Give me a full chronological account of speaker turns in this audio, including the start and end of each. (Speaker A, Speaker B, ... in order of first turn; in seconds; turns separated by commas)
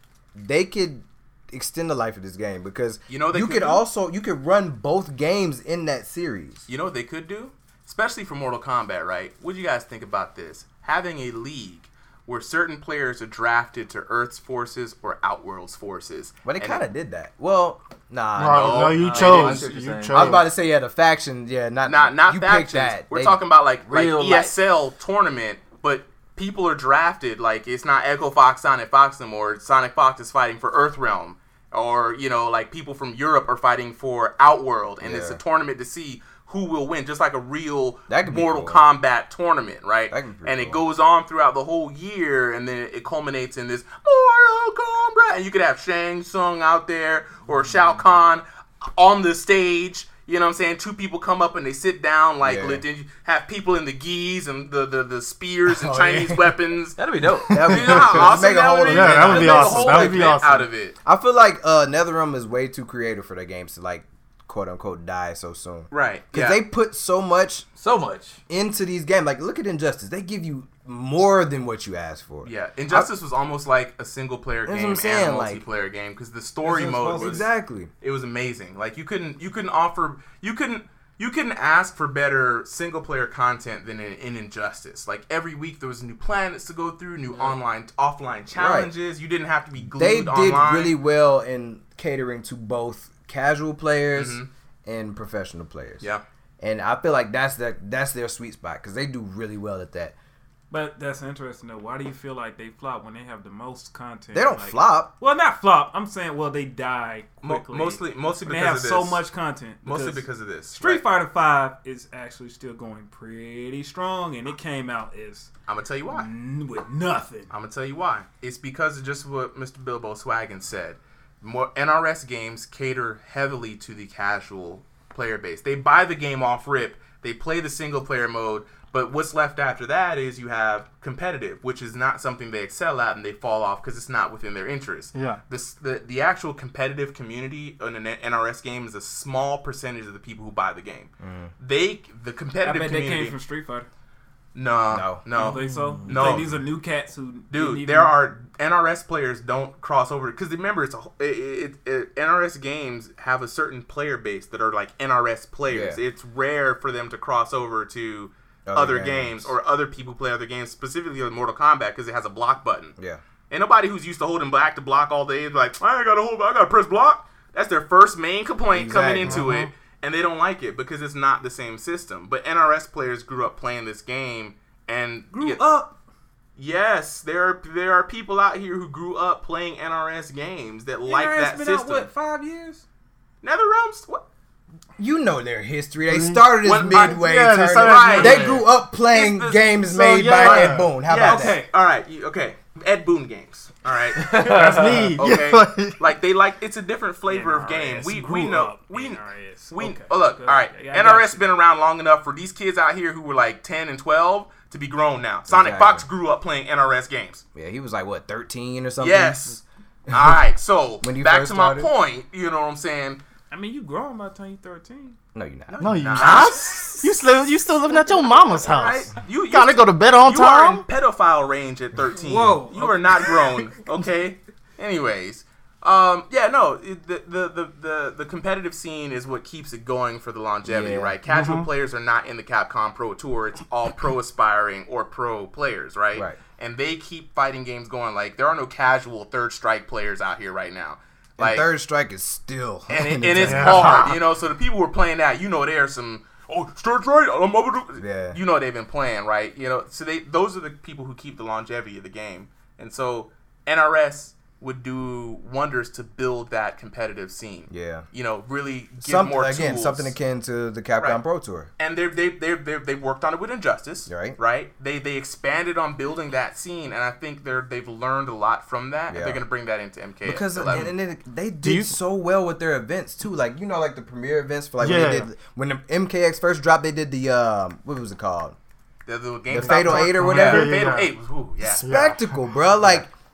Speaker A: 0.4-6.7, Speaker B: 3.1-3.8, Speaker B: 6.7-16.8, Speaker A: 16.4-19.1, Speaker C: 18.4-20.4, Speaker B: 18.5-19.7, Speaker D: 19.0-20.4, Speaker A: 20.1-23.4, Speaker B: 21.9-48.4, Speaker D: 23.9-24.5, Speaker A: 35.0-35.4, Speaker A: 38.1-38.9, Speaker A: 40.1-40.8, Speaker B: 49.0-57.0, Speaker A: 52.4-52.8, Speaker A: 55.7-56.5, Speaker D: 57.0-58.0, Speaker A: 57.5-60.4, Speaker B: 57.6-61.0, Speaker C: 57.7-58.2, Speaker C: 58.9-60.7, Speaker A: 61.0-67.7, Speaker B: 65.9-66.6, Speaker D: 67.8-68.4, Speaker A: 68.5-73.1, Speaker B: 72.4-77.5, Speaker A: 74.7-75.6, Speaker E: 76.6-77.5, Speaker A: 77.1-77.9, Speaker B: 78.0-91.0, Speaker A: 88.5-88.9, Speaker A: 89.9-96.0, Speaker B: 94.1-94.5, Speaker A: 96.6-100.1, Speaker E: 100.7-115.5, Speaker A: 104.3-105.1, Speaker B: 107.4-109.2, Speaker B: 109.8-111.0, Speaker B: 115.7-116.3, Speaker E: 116.1-117.5, Speaker B: 117.5-143.4, Speaker C: 135.1-135.4, Speaker A: 141.2-141.5, Speaker E: 142.6-143.9, Speaker B: 144.6-146.6, Speaker A: 144.9-145.2, Speaker E: 145.3-148.2, Speaker D: 145.7-146.3, Speaker B: 147.5-162.9, Speaker A: 155.7-156.0, Speaker A: 158.7-159.6, Speaker B: 163.5-175.6, Speaker A: 168.7-169.5, Speaker C: 169.2-169.7, Speaker E: 175.3-175.9, Speaker B: 176.6-182.1, Speaker E: 181.1-182.8, Speaker B: 183.4-184.2, Speaker A: 185.0-191.6, Speaker C: 186.1-188.6, Speaker B: 186.6-188.6, Speaker E: 188.3-188.6, Speaker E: 189.1-189.6, Speaker C: 189.9-190.9, Speaker B: 190.4-207.4, Speaker E: 191.2-191.7, Speaker D: 194.2-195.1, Speaker C: 194.3-196.0, Speaker E: 197.3-201.5, Speaker A: 205.5-206.1, Speaker A: 207.6-209.6, Speaker B: 209.0-213.2, Speaker A: 210.1-210.4, Speaker A: 211.0-211.9, Speaker E: 213.5-215.2, Speaker A: 215.3-216.5, Speaker B: 215.8-217.0, Speaker C: 215.8-220.9, Speaker B: 218.6-241.7, Speaker E: 222.2-223.4, Speaker A: 230.7-231.2, Speaker C: 231.3-231.7, Speaker A: 236.1-236.4, Speaker A: 241.4-244.2, Speaker B: 242.9-260.1, Speaker C: 243.4-244.1, Speaker A: 248.0-248.4, Speaker A: 257.7-258.1, Speaker A: 259.0-261.7, Speaker B: 261.8-270.9, Speaker A: 264.1-264.4, Speaker A: 269.1-269.4, Speaker A: 270.2-278.6, Speaker C: 271.6-272.0, Speaker C: 274.8-275.3, Speaker B: 279.1-281.9, Speaker A: 279.5-280.8, Speaker C: 279.6-282.4, Speaker A: 281.9-283.1